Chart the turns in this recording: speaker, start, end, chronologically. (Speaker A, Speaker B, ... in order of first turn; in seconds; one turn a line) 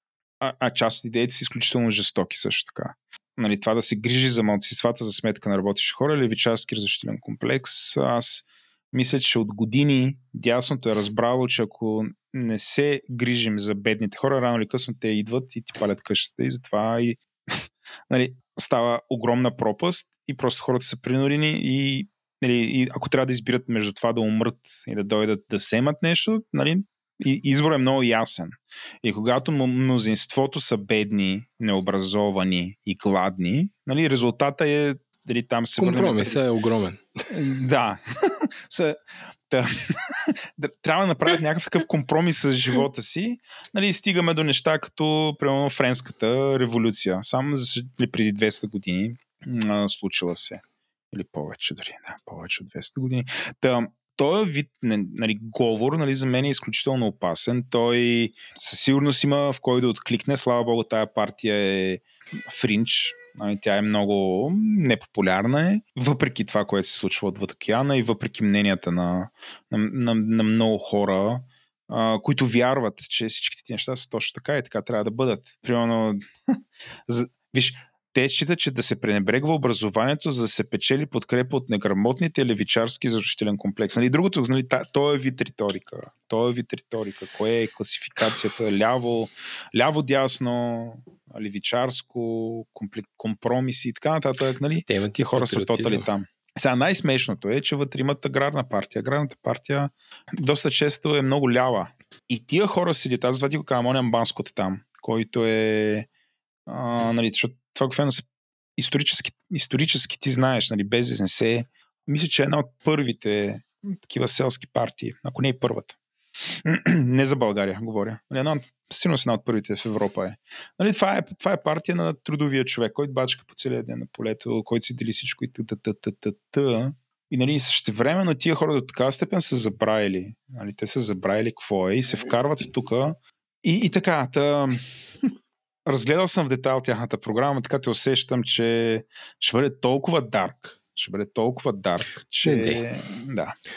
Speaker A: 0.4-36.4
Speaker B: 35.8-37.2
Speaker A: 37.3-76.2
Speaker A: 77.1-106.1
Speaker B: 94.8-96.1
Speaker A: 106.7-108.2
Speaker A: 108.8-135.3
Speaker A: 135.8-143.6
Speaker B: 142.4-142.8